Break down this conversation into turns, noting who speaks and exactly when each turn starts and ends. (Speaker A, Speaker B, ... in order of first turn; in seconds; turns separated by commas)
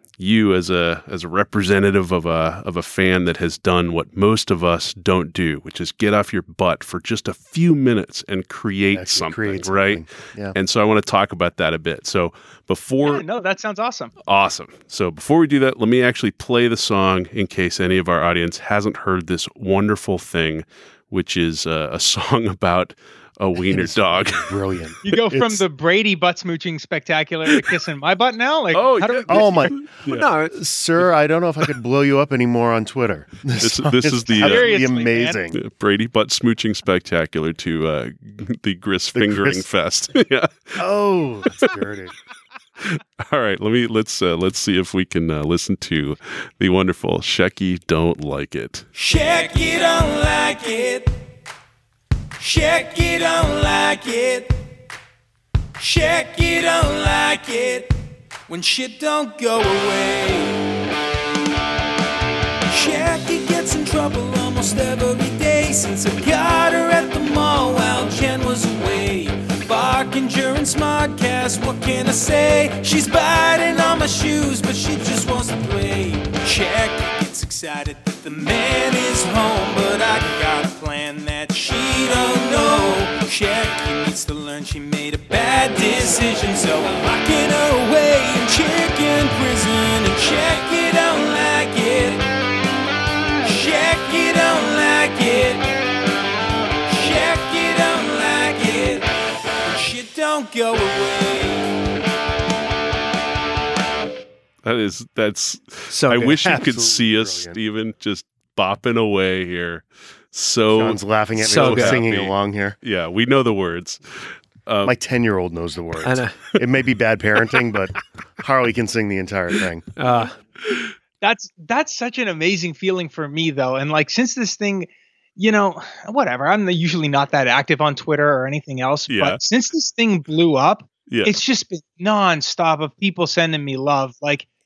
Speaker A: 0.2-13.2, Speaker B: 8.9-10.6, Speaker C: 13.0-14.1, Speaker A: 14.2-24.5, Speaker B: 23.6-25.6, Speaker C: 25.0-29.8, Speaker A: 28.7-30.3, Speaker B: 29.3-29.8, Speaker D: 30.0-30.6, Speaker B: 30.5-35.6, Speaker A: 33.6-34.8, Speaker C: 34.4-35.4, Speaker A: 35.5-40.9, Speaker B: 39.1-39.7, Speaker B: 40.8-42.1, Speaker A: 41.5-41.8, Speaker A: 42.8-48.9, Speaker E: 49.0-51.1, Speaker E: 52.4-54.6, Speaker E: 55.8-57.9, Speaker E: 58.5-60.7, Speaker E: 62.7-92.2, Speaker E: 93.4-95.7, Speaker E: 96.9-99.1, Speaker E: 99.6-101.8, Speaker A: 104.6-114.9, Speaker D: 105.9-106.4, Speaker B: 106.3-107.6, Speaker B: 110.7-112.8, Speaker D: 111.4-112.0, Speaker B: 114.8-119.9, Speaker D: 116.0-116.4, Speaker D: 120.0-120.3, Speaker C: 121.2-134.5, Speaker A: 129.1-129.4, Speaker A: 131.1-131.3